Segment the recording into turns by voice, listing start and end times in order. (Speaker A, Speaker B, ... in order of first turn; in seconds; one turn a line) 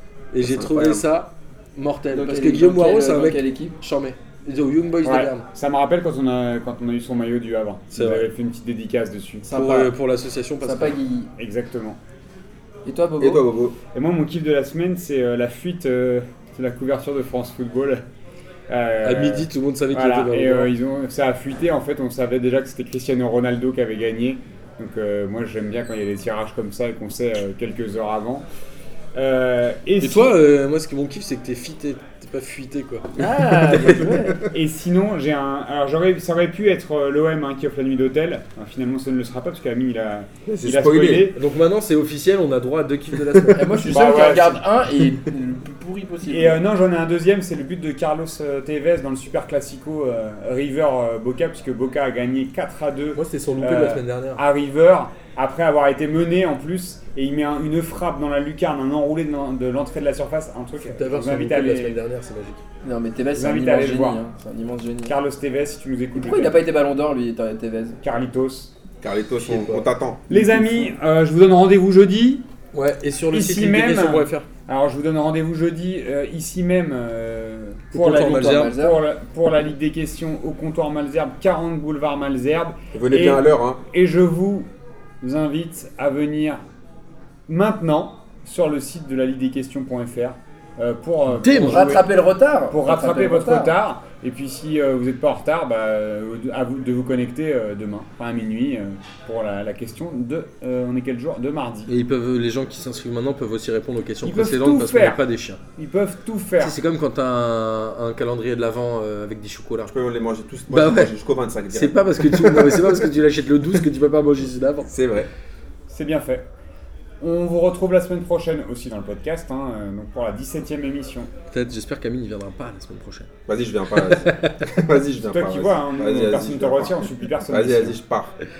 Speaker A: 0.3-5.5
Speaker B: 0.4-1.1
Speaker C: 2.1-3.8
Speaker D: 5.0-9.5
Speaker A: 7.9-8.3
Speaker C: 9.5-9.9
Speaker A: 9.5-11.0
Speaker C: 10.6-11.3
Speaker D: 11.4-12.0
Speaker C: 12.8-13.4
Speaker B: 13.2-13.8
Speaker D: 13.9-18.0
Speaker D: 18.7-28.4
Speaker A: 19.0-20.7
Speaker D: 29.1-30.3
Speaker A: 30.0-34.2
Speaker C: 33.2-34.5
Speaker D: 34.5-41.4
Speaker B: 40.5-41.3
Speaker A: 41.4-44.1
Speaker C: 43.5-46.6
Speaker D: 43.9-44.6
Speaker D: 46.3-62.0
Speaker A: 53.2-54.4
Speaker A: 60.8-62.6
Speaker C: 62.8-65.2
Speaker D: 63.3-64.2
Speaker D: 65.1-66.6
Speaker C: 66.2-68.0
Speaker D: 68.0-68.7
Speaker B: 69.0-70.2
Speaker A: 69.4-70.9
Speaker D: 70.3-72.5
Speaker A: 72.7-74.5
Speaker D: 73.3-84.7
Speaker A: 77.9-78.7
Speaker C: 78.1-79.0
Speaker B: 82.9-83.8
Speaker D: 85.2-86.6
Speaker D: 87.5-92.0
Speaker A: 91.3-92.0
Speaker C: 91.6-93.7
Speaker D: 92.7-101.9
Speaker A: 101.9-105.6
Speaker D: 104.2-105.2
Speaker D: 105.8-106.8
Speaker A: 106.6-109.9
Speaker B: 109.9-113.0
Speaker A: 110.7-111.1
Speaker A: 111.7-114.9
Speaker B: 114.9-115.3
Speaker D: 115.9-116.5
Speaker D: 117.2-121.3
Speaker A: 121.5-123.3
Speaker B: 123.5-128.3
Speaker A: 123.9-124.6
Speaker D: 125.2-128.0